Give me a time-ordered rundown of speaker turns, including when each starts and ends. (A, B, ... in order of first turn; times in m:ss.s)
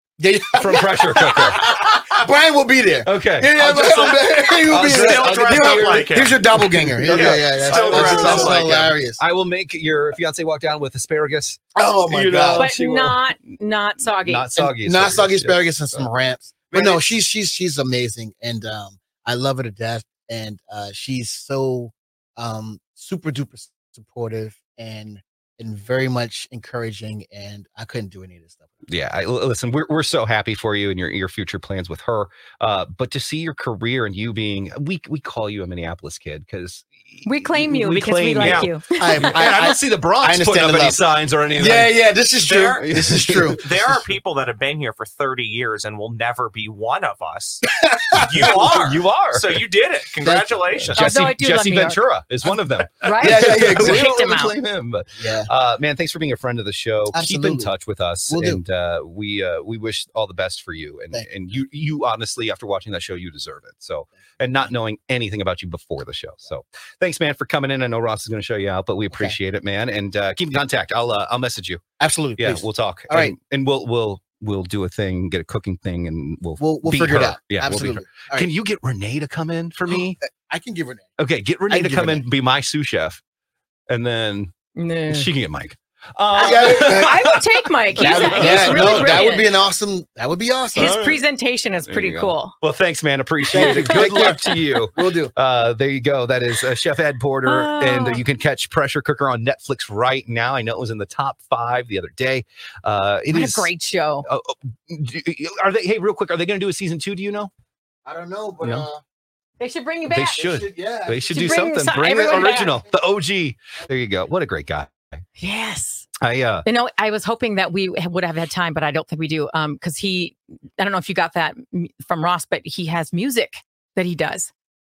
0:00.2-0:09.2 A
0:00.5-0:01.8 B
0:03.1-0:13.3 B
0:03.6-0:08.8 C
0:11.8-0:12.7 A
0:12.6-0:14.5 D
0:14.2-0:16.1 B
0:14.6-0:28.7 A
0:16.7-0:17.0 B
0:28.9-0:42.1 B
0:37.2-0:39.4 D
0:38.4-0:38.7 C
0:39.0-0:41.0 A
0:41.6-0:43.6 A
0:42.4-0:51.0 C
0:42.8-0:43.6 B
0:47.8-0:48.6 A
0:48.2-0:49.6 B
0:50.2-0:50.6 A
0:50.8-1:11.8 B
0:51.0-0:52.0 D
0:53.0-0:54.6 D
0:53.2-0:54.1 A
0:55.2-0:55.5 A
0:57.1-0:57.7 A
0:58.3-0:58.6 A
1:09.1-1:09.4 A
1:12.0-1:13.4 A
1:12.4-1:20.2 B
1:16.6-1:18.5 A
1:19.9-1:21.1 A
1:21.2-1:23.2 B
1:21.7-1:22.2 A
1:23.9-1:24.5 B
1:24.8-1:25.3 D
1:25.1-1:29.3 B
1:26.3-1:27.3 A
1:26.4-1:29.5 D
1:28.0-1:31.0 A
1:30.8-1:32.6 D
1:30.8-1:31.2 B
1:31.9-1:43.7 B
1:33.5-1:34.4 A
1:33.5-1:34.6 D
1:35.0-1:35.3 A
1:37.4-1:38.2 D
1:43.3-1:44.3 D
1:44.2-1:47.5 B
1:48.0-1:49.0 A
1:48.6-1:48.9 B
1:49.6-1:50.5 D
1:50.1-1:55.2 B
1:50.4-1:51.7 A
1:51.3-1:52.8 D
1:55.4-1:56.1 D
1:56.2-1:56.7 B
1:56.6-2:04.5 D